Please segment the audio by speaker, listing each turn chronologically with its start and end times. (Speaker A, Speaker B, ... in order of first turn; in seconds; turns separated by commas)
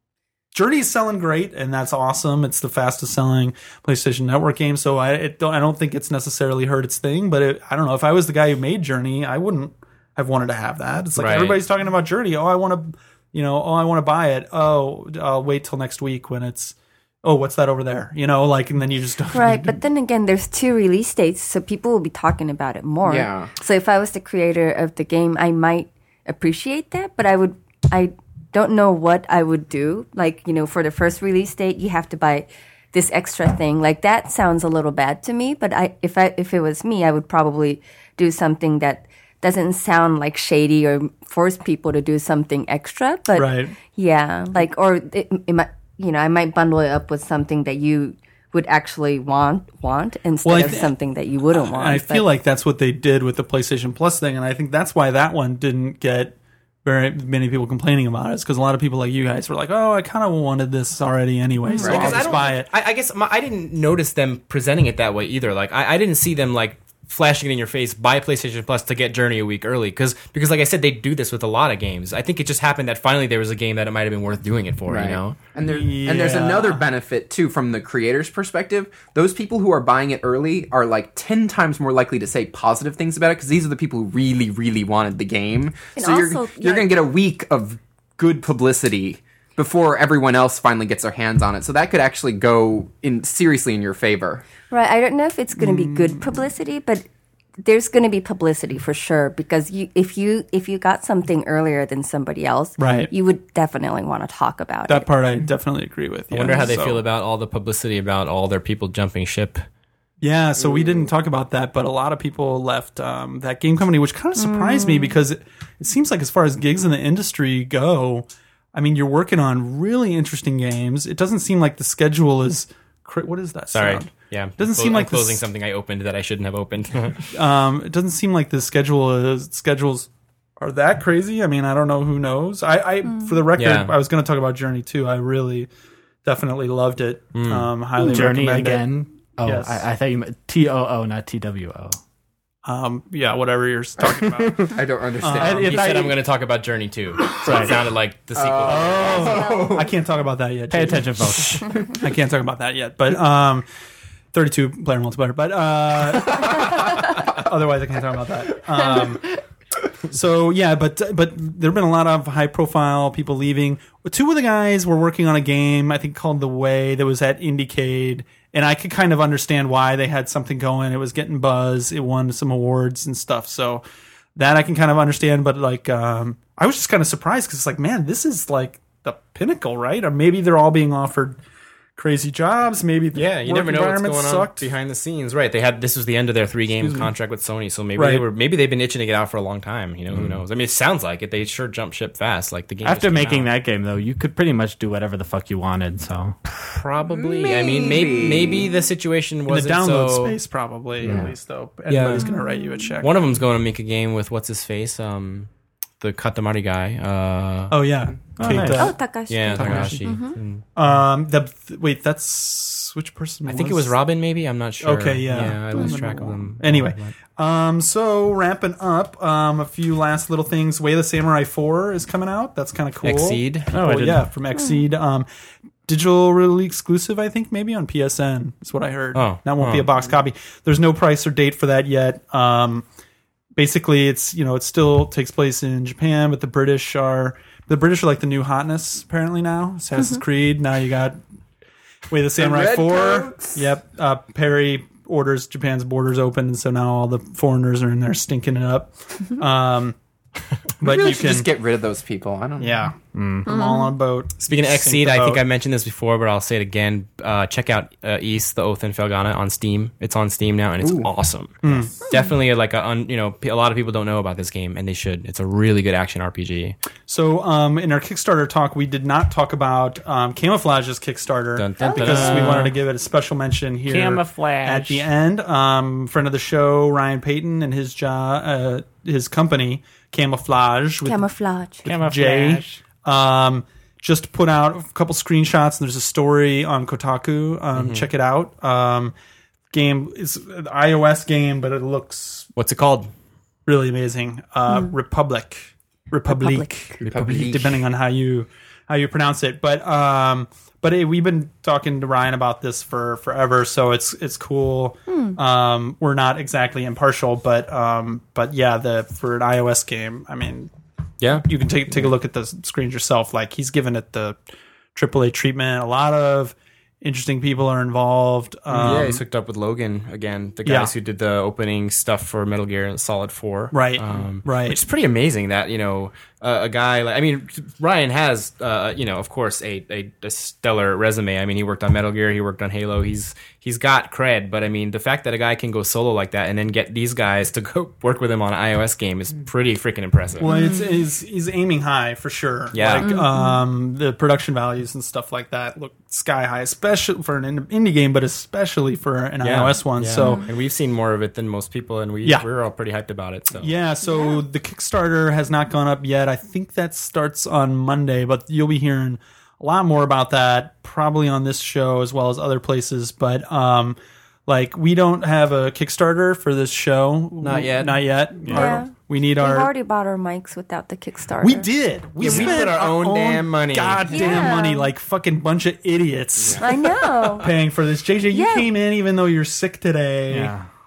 Speaker A: 0.5-19.8, Speaker B: 11.2-11.6, Speaker C: 19.3-52.3, Speaker D: 23.0-23.5, Speaker A: 43.3-43.7, Speaker A: 50.4-50.9, Speaker A: 51.5-62.7, Speaker C: 61.7-61.9, Speaker D: 61.8-62.4, Speaker B: 61.8-75.4, Speaker D: 74.9-94.5, Speaker A: 75.6-76.9, Speaker C: 86.0-87.0, Speaker C: 94.7-97.0, Speaker A: 95.6-96.4, Speaker C: 97.6-105.1, Speaker A: 102.8-103.1, Speaker A: 104.9-107.0, Speaker B: 106.3-109.6, Speaker A: 110.2-125.4, Speaker D: 110.6-110.9, Speaker C: 114.3-115.2, Speaker B: 123.7-127.3, Speaker A: 127.3-130.1, Speaker A: 130.6-135.7, Speaker C: 133.1-133.4, Speaker B: 133.6-133.9, Speaker A: 136.2-138.9, Speaker B: 137.3-137.7, Speaker E: 138.0-142.0, Speaker A: 139.4-139.8, Speaker A: 142.6-145.9, Speaker E: 144.3-146.2, Speaker D: 144.6-145.7, Speaker B: 145.6-149.3, Speaker E: 147.4-147.8, Speaker D: 148.3-149.9, Speaker A: 148.6-153.7, Speaker C: 149.0-149.8, Speaker E: 150.7-151.7, Speaker A: 154.3-159.3, Speaker A: 160.1-173.8, Speaker A: 174.3-181.4, Speaker A: 181.9-184.7, Speaker B: 183.1-193.5, Speaker A: 187.9-188.2, Speaker E: 192.8-196.3, Speaker B: 196.5-200.4, Speaker D: 197.1-198.7, Speaker A: 199.5-203.2, Speaker E: 201.0-201.3, Speaker B: 201.9-202.3, Speaker C: 202.2-202.9, Speaker B: 203.0-205.5, Speaker B: 206.0-207.8, Speaker A: 207.7-209.0, Speaker E: 208.4-208.9, Speaker C: 208.7-210.4, Speaker B: 209.3-210.6, Speaker A: 209.6-210.0, Speaker E: 209.6-209.9, Speaker A: 210.8-213.9, Speaker B: 213.5-217.1, Speaker A: 214.8-225.3, Speaker C: 215.7-216.1, Speaker B: 223.0-223.7, Speaker E: 223.7-224.3, Speaker A: 225.9-232.8, Speaker B: 229.1-229.9, Speaker A: 233.6-241.2, Speaker A: 242.1-249.9, Speaker D: 242.4-243.7, Speaker A: 250.8-251.5, Speaker D: 250.8-252.8, Speaker A: 252.6-255.4, Speaker E: 253.1-253.5, Speaker C: 253.4-253.9, Speaker B: 254.4-266.8, Speaker D: 260.8-261.1, Speaker A: 261.6-261.9, Speaker A: 267.1-281.2, Speaker B: 271.6-272.7, Speaker C: 271.8-272.3, Speaker E: 271.9-272.7, Speaker E: 273.9-275.1, Speaker C: 281.0-281.9, Speaker A: 281.8-289.1, Speaker E: 281.9-282.8, Speaker B: 287.7-288.1, Speaker A: 289.7-292.5, Speaker B: 292.6-293.1, Speaker A: 293.6-310.7, Speaker C: 296.3-296.9, Speaker D: 297.0-297.8, Speaker C: 305.1-305.4, Speaker B: 311.2-311.5, Speaker A: 311.4-314.4, Speaker A: 314.9-319.2, Speaker B: 318.7-340.5, Speaker A: 320.6-320.9, Speaker A: 323.7-324.8, Speaker A: 340.4-350.4, Speaker C: 340.4-340.9, Speaker B: 342.7-343.1, Speaker C: 343.0-343.6, Speaker B: 349.4-353.7, Speaker C: 350.2-350.5, Speaker A: 353.6-369.7, Speaker C: 354.0-354.4, Speaker B: 367.4-368.0, Speaker E: 368.4-368.8, Speaker C: 368.5-371.7, Speaker A: 371.4-380.5, Speaker B: 372.2-374.4, Speaker C: 374.1-374.9, Speaker D: 376.4-376.6, Speaker C: 376.6-377.5, Speaker C: 378.3-378.7, Speaker E: 380.3-380.7